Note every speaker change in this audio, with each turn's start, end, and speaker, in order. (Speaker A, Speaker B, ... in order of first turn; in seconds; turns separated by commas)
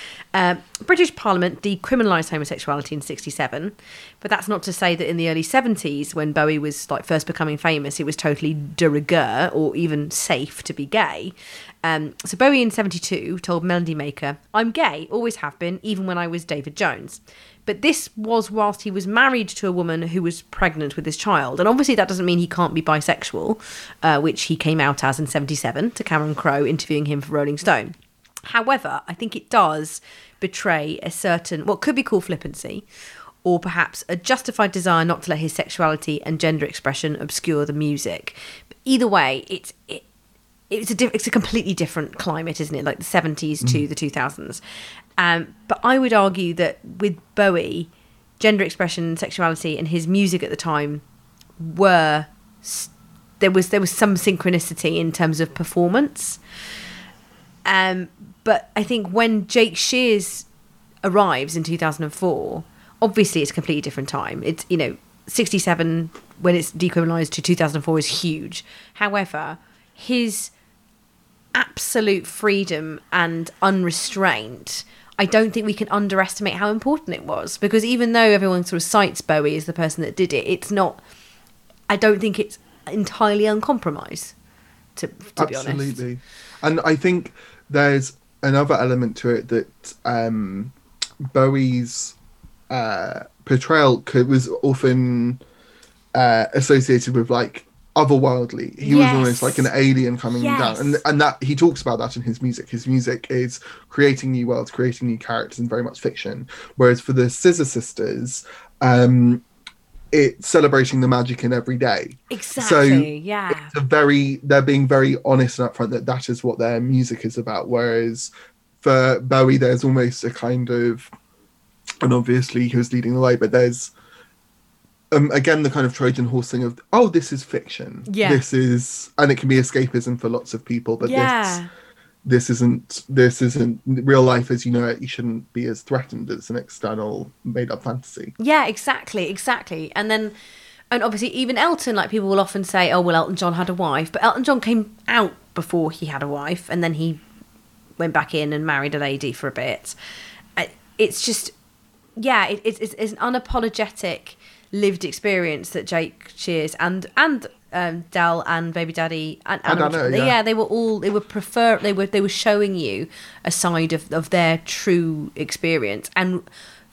Speaker A: 0.3-32.9, Speaker A: 33.4-40.0, Speaker A: 40.7-44.6, Speaker A: 45.2-51.0, Speaker A: 51.6-56.4, Speaker A: 57.7-60.5, Speaker A: 61.0-70.5, Speaker A: 71.5-81.0, Speaker A: 81.9-84.3, Speaker A: 85.0-86.0, Speaker B: 85.4-90.7, Speaker B: 91.3-92.2, Speaker B: 92.7-95.4, Speaker B: 96.2-109.4, Speaker A: 98.8-99.7, Speaker A: 100.3-101.0, Speaker B: 110.1-121.1, Speaker A: 112.3-113.7, Speaker B: 122.0-123.9, Speaker B: 125.1-131.6, Speaker A: 128.1-128.4, Speaker A: 131.0-131.7, Speaker B: 132.2-138.3, Speaker A: 138.4-140.3, Speaker A: 140.9-147.2, Speaker A: 148.0-149.9, Speaker A: 150.6-151.5, Speaker A: 152.2-166.5, Speaker B: 159.7-160.4